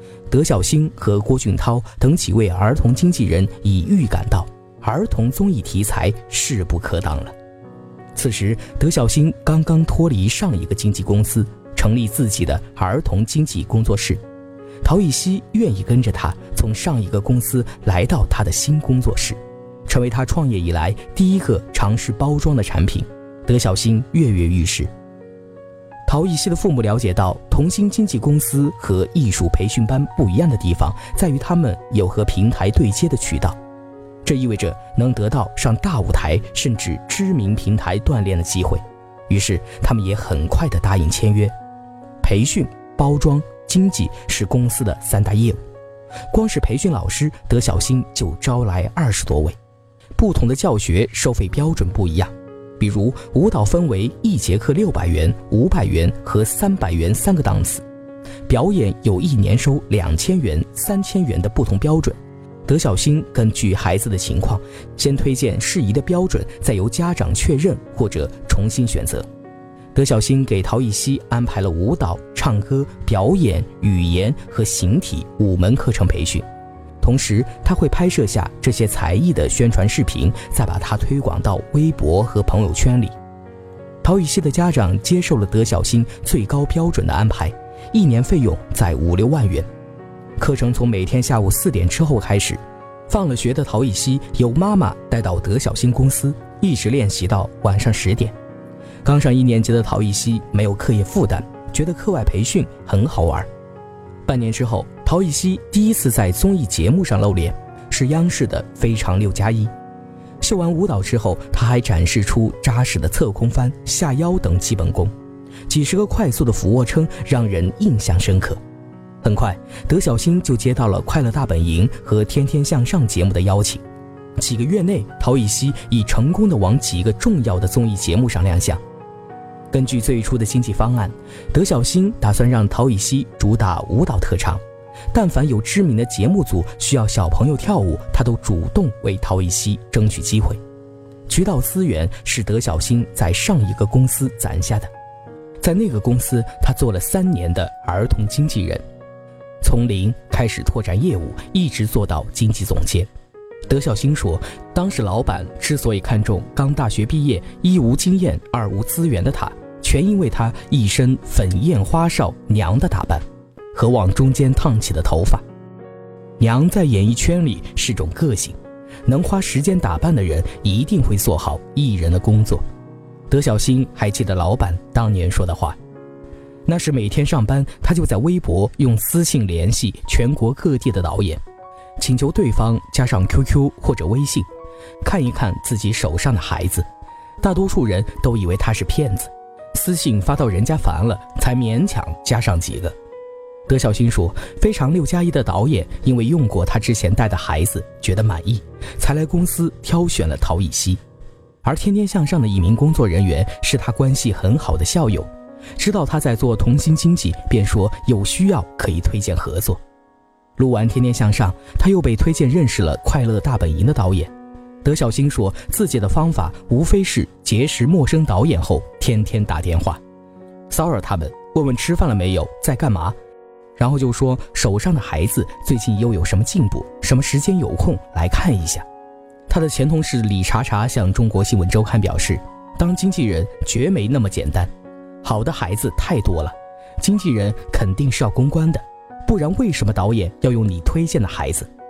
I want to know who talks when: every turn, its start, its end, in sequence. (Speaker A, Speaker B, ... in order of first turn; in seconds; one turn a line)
Speaker A: 0.3-7.3
Speaker A: 8.2-14.2
Speaker A: 14.8-24.9
Speaker A: 26.1-33.6
Speaker A: 34.2-41.5
Speaker A: 42.2-45.6
Speaker A: 46.3-49.6
Speaker A: 50.2-57.9
Speaker A: 58.5-69.3
Speaker A: 69.9-76.5
Speaker A: 77.0-83.2
Speaker A: 84.0-89.7
Speaker A: 90.4-98.3
Speaker A: 99.0-103.5
Speaker A: 104.3-109.7
Speaker A: 110.4-115.1
Speaker A: 115.7-118.6
Speaker A: 119.2-123.8
Speaker A: 124.4-128.8
Speaker A: 129.7-140.6
Speaker A: 141.3-144.9
Speaker A: 145.6-148.8
Speaker A: 149.6-153.1
Speaker A: 153.7-165.4
Speaker A: 166.4-172.6
Speaker A: 173.3-175.8
Speaker A: 176.7-181.4
Speaker A: 182.0-184.5
Speaker A: 185.0-186.9
Speaker A: 187.4-192.9
Speaker A: 193.7-201.0
Speaker A: 201.6-209.8
Speaker A: 210.6-214.3
Speaker A: 214.8-220.0
Speaker A: 220.7-223.2
Speaker A: 223.8-228.8
Speaker A: 229.5-234.7
Speaker A: 235.2-241.7